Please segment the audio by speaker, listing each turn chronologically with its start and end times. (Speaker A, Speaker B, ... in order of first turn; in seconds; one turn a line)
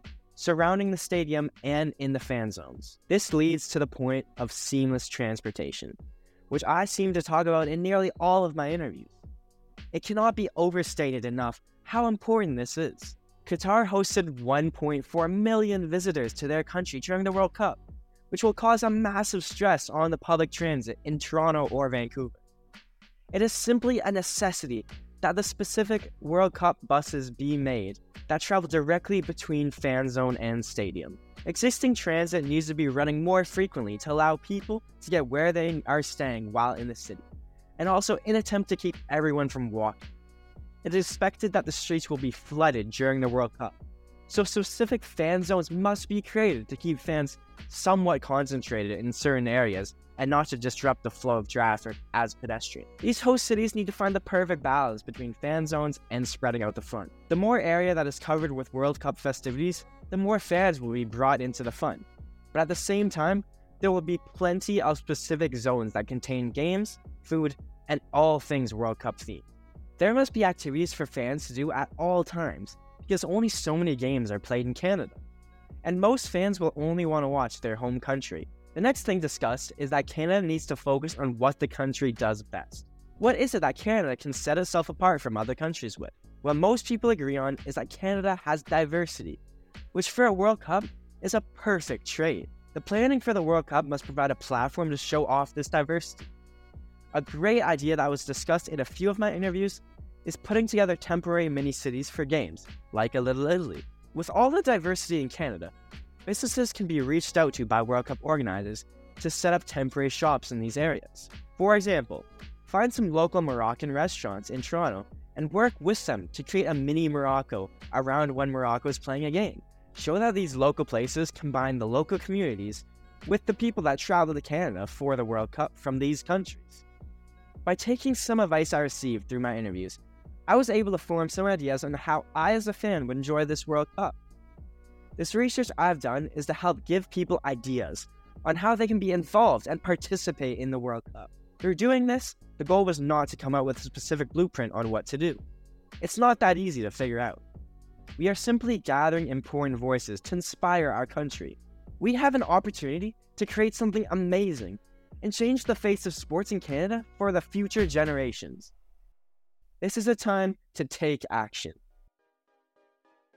Speaker A: 0.4-6.0
Speaker A: 6.5-9.1
Speaker A: 9.9-17.8
Speaker A: 18.3-22.4
Speaker A: 23.3-37.2
Speaker A: 37.8-40.0
Speaker A: 40.8-43.8
Speaker A: 44.3-69.5
Speaker A: 70.0-75.2
Speaker A: 75.8-89.4
Speaker A: 89.9-96.3
Speaker A: 97.1-105.7
Speaker A: 106.3-126.8
Speaker A: 127.7-134.2
Speaker A: 135.2-145.4
Speaker A: 146.0-147.4
Speaker A: 148.2-158.7
Speaker A: 159.8-161.8